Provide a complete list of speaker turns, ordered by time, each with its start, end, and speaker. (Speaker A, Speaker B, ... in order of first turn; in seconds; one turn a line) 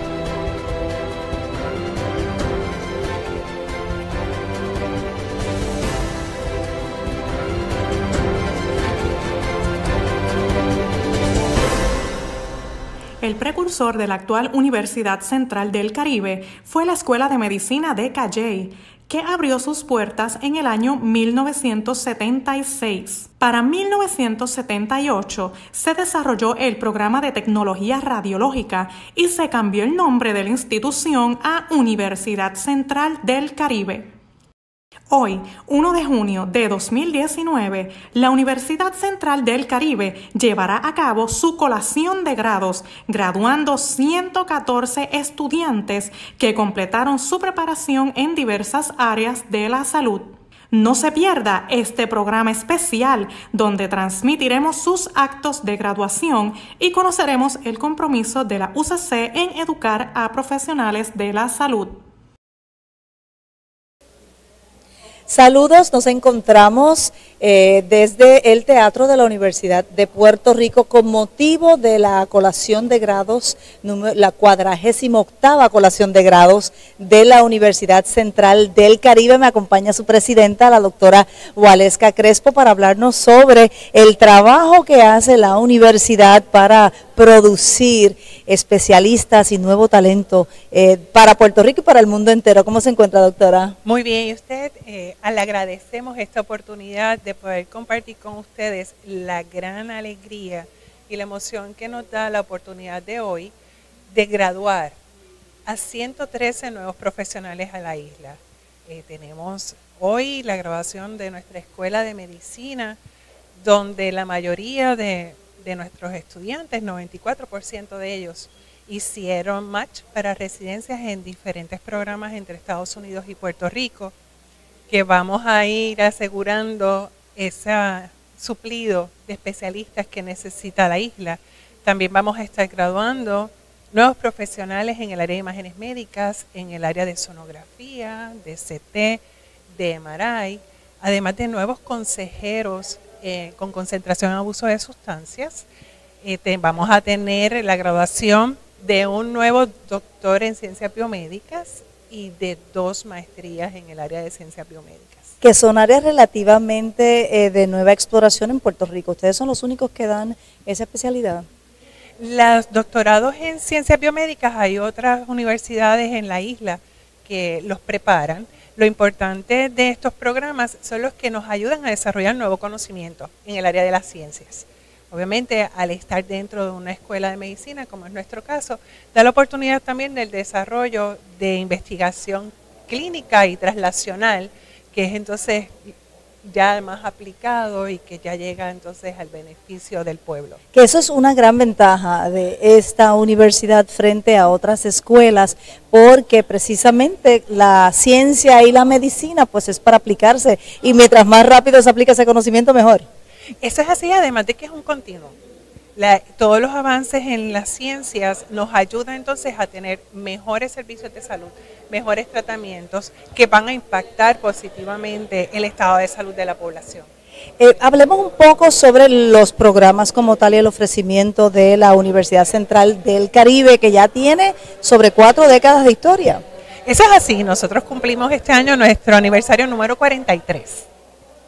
Speaker A: 13.2-34.1
Speaker A: 35.1-62.0
Speaker B: 65.3-93.8
Speaker C: 93.8-103.5
Speaker C: 104.1-105.0
Speaker C: 105.7-113.0
Speaker C: 113.6-124.1
Speaker C: 124.9-145.7
Speaker C: 146.2-155.3
Speaker B: 155.4-161.5
Speaker C: 162.2-190.6
Speaker B: 190.7-203.1
Speaker C: 203.6-205.4
Speaker C: 206.0-217.1
Speaker B: 217.6-226.4
Speaker C: 226.9-230.9